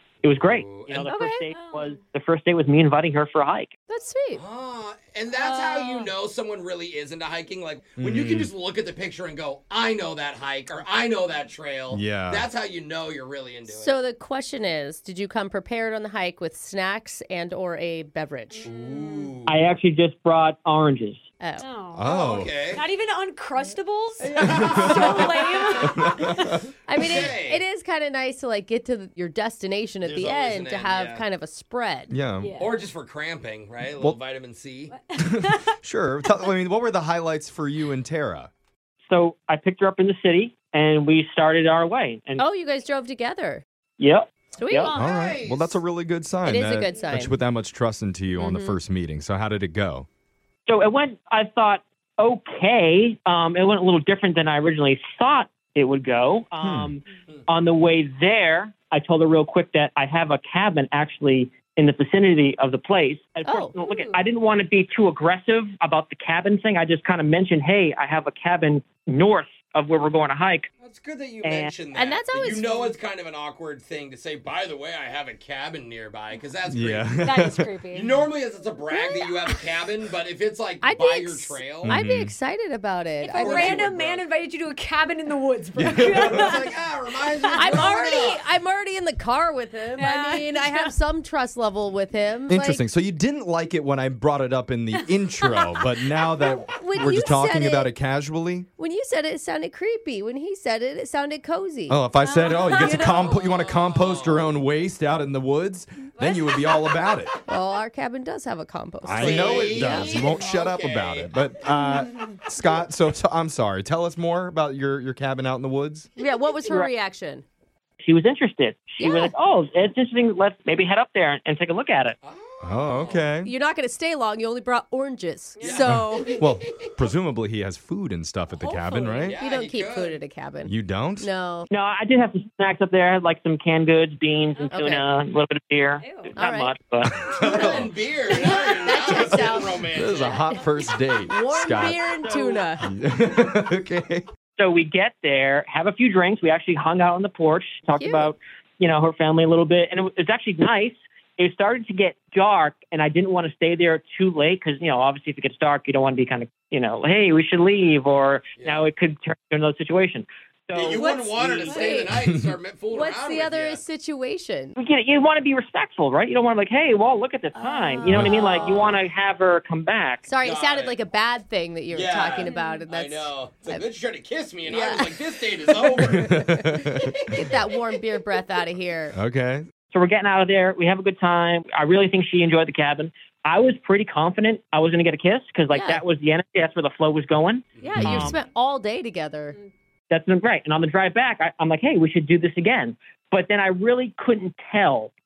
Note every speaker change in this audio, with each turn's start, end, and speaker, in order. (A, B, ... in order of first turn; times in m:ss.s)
0:00.2-0:03.8 A
0:00.4-0:01.1 B
0:01.1-0:01.5 C
0:01.5-0:02.0 D
0:03.9-0:04.4 C
0:04.4-0:13.9 B
0:05.3-0:06.1 D
0:08.0-0:08.5 E
0:11.9-0:12.5 E
0:13.7-0:18.7 C
0:18.7-0:19.7 B
0:18.7-0:19.3 D
0:19.5-0:21.2 A
0:21.4-0:21.7 C
0:21.6-0:26.6 D
0:22.0-0:22.6 E
0:22.0-0:22.8 B
0:24.4-0:25.2 E
0:24.4-0:25.4 B
0:24.4-0:25.2 C
0:26.0-0:26.6 E
0:26.9-0:32.2 C
0:27.0-0:27.6 B
0:30.0-0:31.2 B
0:32.1-0:32.5 E
0:32.4-0:32.8 D
0:32.6-0:35.0 B
0:34.9-0:35.7 D
0:35.6-0:38.5 E
0:39.1-0:42.4 A
0:42.4-0:43.6 C
0:44.0-0:45.0 A
0:44.6-0:45.0 C
0:44.7-0:45.1 D
0:44.9-0:50.1 E
0:45.0-0:45.8 B
0:46.4-0:47.3 C
0:48.4-0:48.8 C
0:50.7-1:10.7 A
0:56.6-0:56.9 E
1:03.4-1:03.7 C
1:03.8-1:04.1 D
1:10.8-1:17.2 B
1:11.4-1:11.7 A
1:11.9-1:12.9 C
1:16.7-1:17.7 E
1:17.2-1:18.2 D
1:17.9-1:21.9 B
1:18.9-1:19.6 C
1:20.8-1:23.8 C
1:21.8-1:22.3 E
1:23.2-1:28.0 D
1:23.4-1:24.2 B
1:25.8-1:26.6 E
1:26.2-1:28.4 B
1:27.6-1:32.8 C
1:30.0-1:30.9 D
1:32.5-1:38.7 E
1:35.5-1:35.8 D
1:36.6-1:37.9 C
1:38.8-1:42.0 C
1:41.9-1:47.3 E
1:42.2-1:43.6 D
1:42.7-1:43.3 C
1:43.8-1:44.5 B
1:47.5-1:50.5 C
1:49.0-1:56.1 E
1:49.2-1:51.3 B
1:56.2-1:57.4 C
1:58.0-2:02.2 A
1:59.0-1:59.3 C
2:02.2-2:03.2 B
2:02.6-2:03.5 E
2:03.0-2:03.2 D
2:03.4-2:06.4 C
2:05.6-2:05.9 D
2:05.6-2:05.9 B
2:05.9-2:09.4 E
2:08.5-2:09.4 D
2:09.3-2:11.7 C
2:09.3-2:10.2 B
2:10.7-2:11.3 E
2:11.7-2:17.2 A
2:14.7-2:15.0 C
2:16.0-2:16.4 D
2:16.4-2:16.8 C
2:17.2-2:17.9 E
2:17.4-2:20.4 B
2:18.3-2:20.6 C
2:19.2-2:22.0 E
2:21.3-2:22.9 C
2:22.8-2:24.2 E
2:24.6-2:41.0 A
2:28.0-2:28.3 C
2:38.6-2:38.9 B
2:40.8-2:43.8 B
2:40.9-2:42.0 D
2:41.4-2:42.2 C
2:42.9-2:44.8 C
2:44.8-2:50.4 A
2:47.6-2:48.9 D
2:48.1-2:48.4 E
2:48.1-2:48.9 B
2:50.2-2:53.8 C
2:50.4-2:51.0 B
2:51.9-2:56.4 B
2:52.4-2:52.8 D
2:54.6-2:56.0 C
2:56.0-2:57.2 E
2:57.2-2:59.2 C
2:59.1-2:59.7 E
2:59.9-3:08.4 A
3:05.7-3:06.0 C
3:07.8-3:08.1 B
3:07.8-3:09.6 C
3:08.0-3:08.4 E
3:10.1-3:15.1 A